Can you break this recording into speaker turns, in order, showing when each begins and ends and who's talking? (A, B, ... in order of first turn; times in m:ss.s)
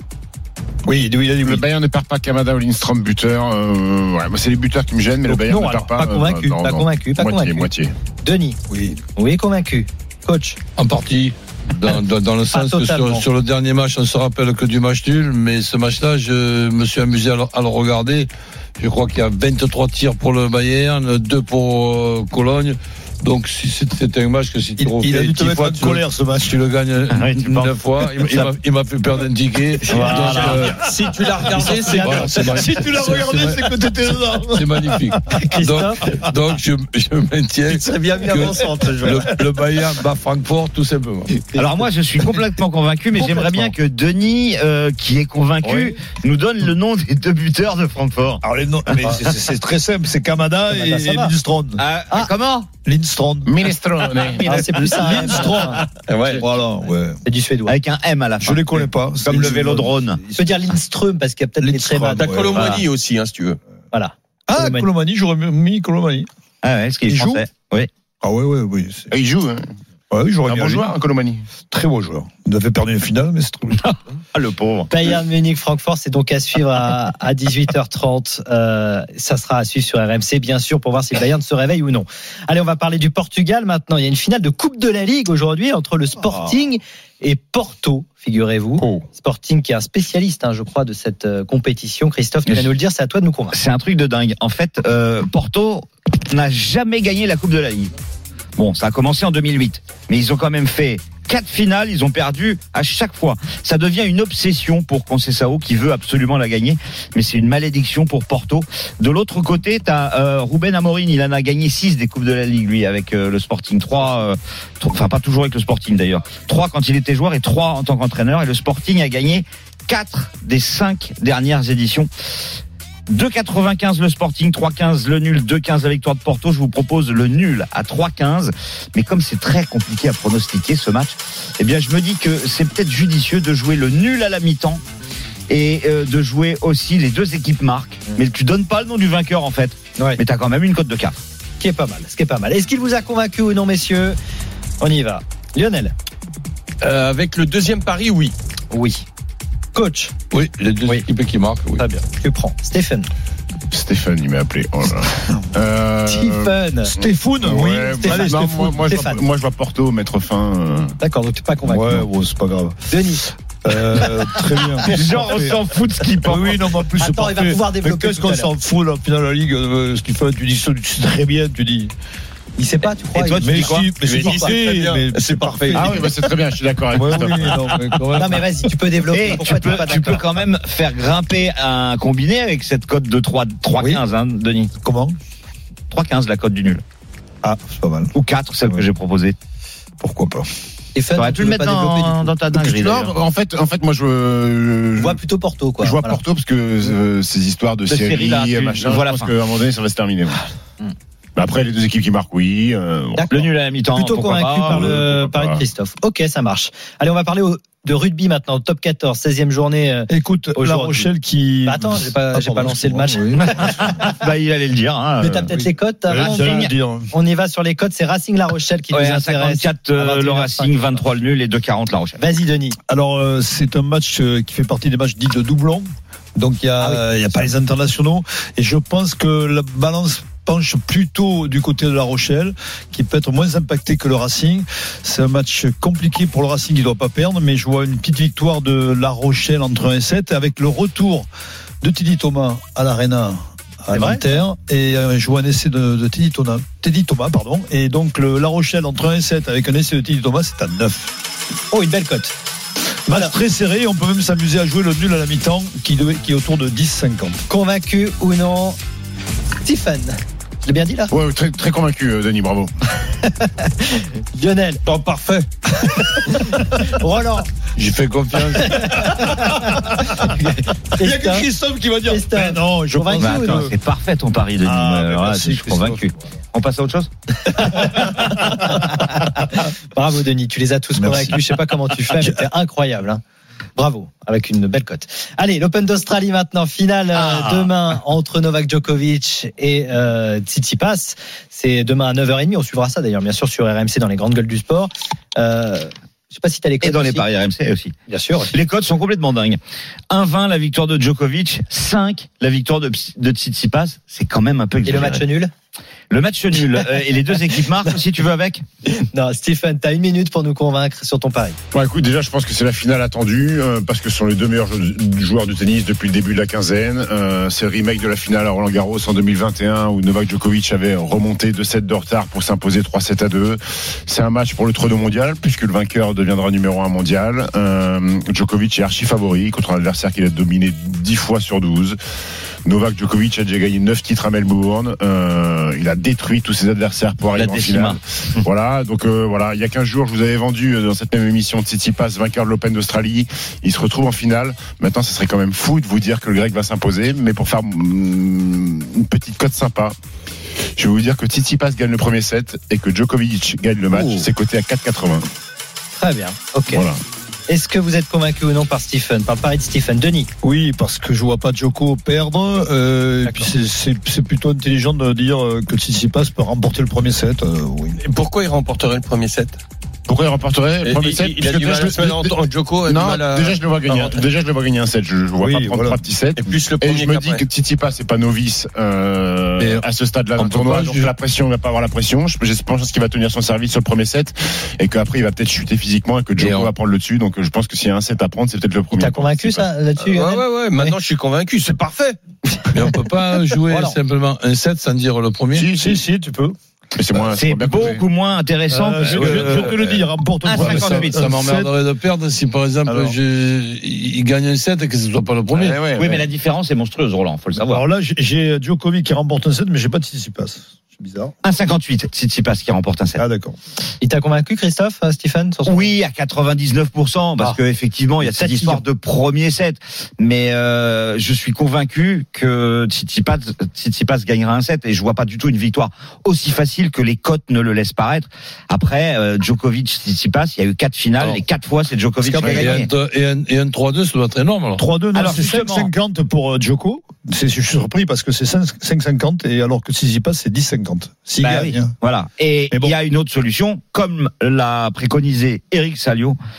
0:00.8-0:01.6 A
0:01.4-0:07.9 B
0:05.2-0:07.7 C
0:08.2-0:08.6 C
0:08.7-0:09.0 A
0:09.2-0:10.6 C
0:10.8-0:30.8 D
0:12.5-0:13.2 C
0:24.8-0:26.6 A
0:27.1-0:28.4 E
0:29.9-0:30.7 E
0:29.9-0:30.5 C
0:30.0-0:35.3 A
0:30.2-0:32.8 F
0:31.6-0:33.6 D
0:34.5-0:41.3 D
0:35.3-0:36.0 C
0:37.6-0:39.4 F
0:38.3-0:39.4 A
0:41.5-0:49.2 E
0:43.2-0:43.7 C
0:45.6-0:45.9 C
0:48.4-0:51.8 A
0:50.7-0:51.3 C
0:51.8-0:52.7 E
0:52.8-0:53.5 A
0:53.4-0:54.6 B
0:54.3-0:55.4 E
0:54.4-0:55.8 C
0:54.8-0:57.2 A
0:56.1-0:56.4 F
0:57.2-0:57.8 C
0:57.6-1:00.2 E
0:58.4-1:00.7 A
1:00.3-1:02.3 C
1:01.6-1:02.8 A
1:02.1-1:03.6 F
1:02.6-1:02.8 E
1:03.9-1:04.9 C
1:04.5-1:06.3 A
1:06.6-1:07.9 E
1:07.1-1:07.4 A
1:08.2-1:09.1 A
1:09.1-1:09.7 B
1:10.1-1:10.9 A
1:10.4-1:11.5 B
1:11.7-1:13.9 A
1:13.8-1:14.9 E
1:14.9-1:33.5 C
1:28.8-1:29.0 B
1:32.4-1:32.7 E
1:33.5-1:37.9 E
1:38.6-2:02.1 E
2:03.1-2:14.8 E
2:15.5-2:21.2 E
2:21.6-2:24.2 C
2:24.8-2:25.9 C
2:26.8-2:28.3 F
2:28.7-2:29.0 C
2:29.7-2:30.1 C
2:30.3-2:31.8 D
2:31.8-2:33.1 C
2:33.7-2:36.6 B
2:36.1-2:36.9 C
2:37.0-2:38.8 A
2:37.4-2:41.0 B
2:38.0-2:39.2 C
2:41.0-2:42.1 C
2:41.6-2:42.8 A
2:42.9-2:43.2 C
2:43.5-2:45.6 A
2:44.8-2:46.7 E
2:46.2-2:51.9 A
2:47.0-2:48.5 C
2:52.6-2:54.5 C
2:53.1-2:53.9 E
2:53.4-2:56.1 A
2:54.0-2:56.3 F
2:55.7-2:57.8 B
2:56.9-2:58.5 A
2:58.1-3:00.2 C
2:59.1-3:04.7 E
3:03.8-3:04.0 A
3:04.8-3:05.2 A
3:05.9-3:06.8 E
3:07.4-3:08.8 A
3:08.1-3:09.4 E
3:10.0-3:10.5 A
3:10.9-3:12.3 C
3:11.2-3:13.2 E
3:12.5-3:15.2 B
3:15.0-3:16.2 C
3:15.8-3:20.4 B
3:17.9-3:19.3 E
3:21.4-3:23.4 B
3:23.3-3:24.9 E
3:23.9-3:31.1 C
3:24.7-3:25.6 B
3:30.1-3:33.9 A
3:31.6-3:34.0 C
3:33.4-3:35.6 E
3:35.2-3:41.0 C
3:35.5-3:37.1 A
3:36.1-3:36.7 E
3:38.9-3:42.2 E
3:42.2-3:42.8 C
3:42.9-4:01.3 A
3:46.8-3:47.5 C
4:01.8-4:11.1 A
4:03.9-4:04.4 C
4:11.7-4:12.3 C
4:13.1-4:17.4 A
4:17.5-4:18.8 C
4:19.6-4:21.1 C
4:21.1-4:22.7 B
4:23.2-4:24.8 C
4:24.8-4:25.5 F
4:25.8-4:27.5 C
4:27.8-4:29.0 D
4:28.6-4:31.5 C
4:29.3-4:30.1 A
4:31.0-4:33.7 A
4:32.1-4:33.7 C
4:33.2-4:37.1 E
4:34.6-4:36.0 A
4:37.5-4:43.2 C
4:37.8-4:38.3 A
4:41.0-4:41.4 A
4:42.2-4:42.4 A
4:43.8-4:57.2 C
4:47.2-4:47.6 A
4:56.8-4:58.0 E
4:58.1-4:58.5 C
4:58.5-5:05.2 E
5:04.8-5:05.5 C
5:06.1-5:08.6 E
5:09.0-5:11.6 C
5:11.7-5:32.0 B
5:32.6-5:49.9 B
5:37.3-5:38.4 E
5:50.8-5:55.2 B
5:54.0-5:54.2 C
5:56.0-5:56.8 C
5:56.7-5:57.0 B
5:57.5-6:00.3 C
6:00.4-6:08.0 A
6:03.2-6:03.5 C
6:08.0-6:09.6 F
6:10.1-6:29.6 B
6:10.8-6:14.2 F
6:15.4-6:16.0 A
6:16.4-6:17.4 F
6:19.6-6:19.8 D
6:20.4-6:21.1 D
6:26.4-6:26.7 D
6:29.0-6:30.9 C
6:30.0-6:32.2 F
6:32.7-6:35.7 D
6:33.7-6:34.0 C
6:35.5-6:36.0 B
6:35.7-6:36.5 A
6:37.0-6:38.0 B
6:37.3-6:39.7 E
6:38.7-6:41.7 A
6:39.2-6:45.8 D
6:40.4-6:41.2 E
6:42.8-6:43.2 A
6:45.5-6:46.2 B
6:45.9-6:47.8 E
6:47.6-6:51.3 A
6:51.4-6:53.2 E
6:53.2-6:53.6 A
6:54.0-6:55.9 C
6:55.6-7:12.9 E
6:58.2-6:58.8 C
7:11.2-7:11.4 D
7:12.2-7:12.8 A
7:12.4-7:14.8 D
7:14.8-7:21.9 A
7:15.1-7:15.9 E
7:21.4-7:26.4 E